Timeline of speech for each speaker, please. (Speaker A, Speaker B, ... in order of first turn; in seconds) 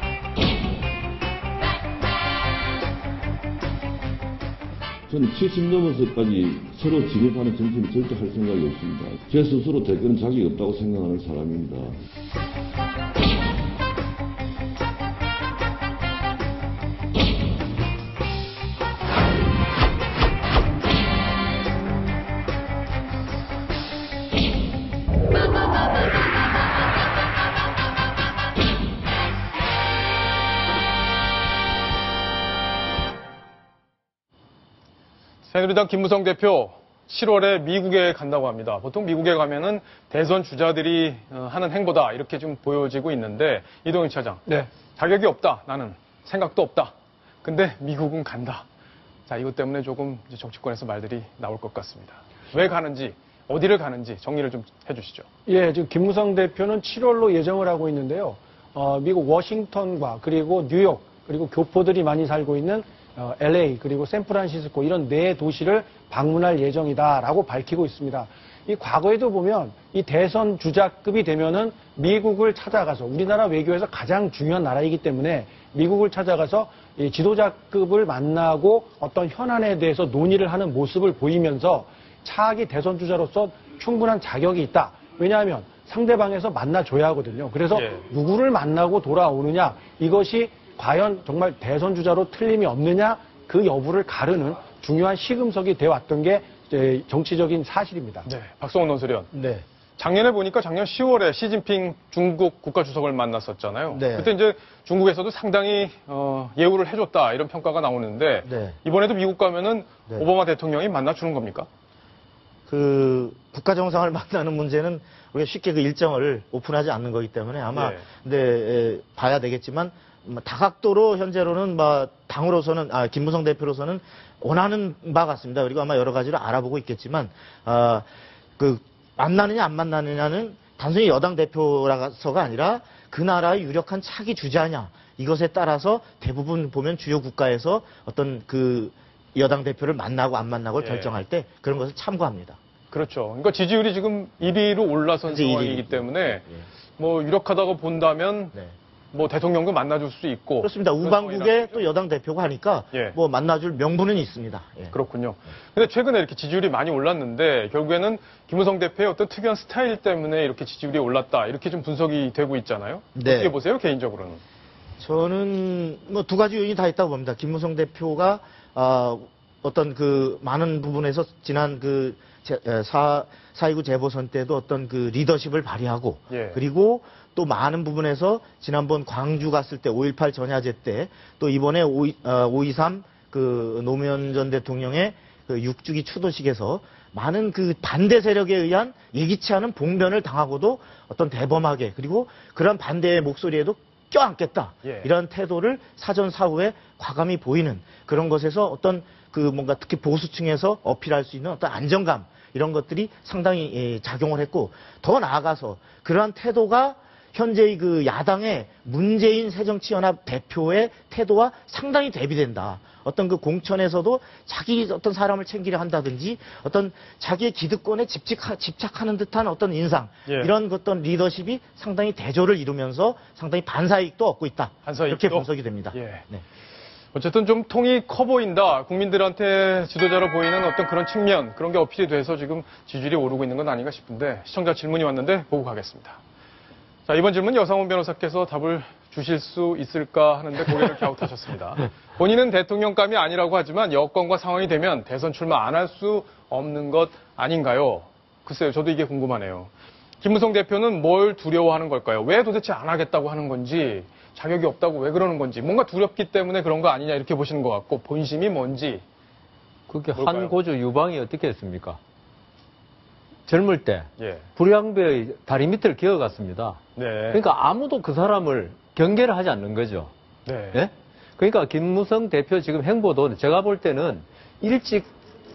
Speaker A: 5.1-11.9
Speaker B: 35.5-46.9, 47.4-48.6, 49.3-55.2, 87.7-88.0, 98.2-99.3, 100.0-111.7, 117.7-118.0, 140.8-141.2, 142.9-146.4, 147.0-148.5, 149.1-151.8, 152.9-153.2, 154.9-164.4, 176.3-176.6, 194.8-195.1, 220.3-220.5, 224.8-226.2, 227.1-236.2, 237.1-259.0, 260.1-260.5, 264.2-264.5, 266.9-267.4, 270.4-270.8
Speaker C: 55.5-98.3
Speaker D: 103.9-104.3, 108.4-108.8, 112.7-128.1, 128.6-142.6, 145.2-146.6, 150.6-154.9, 163.2-163.6, 165.0-226.4
Speaker E: 259.9-262.0, 263.5-266.8, 267.3-270.1, 270.7-275.1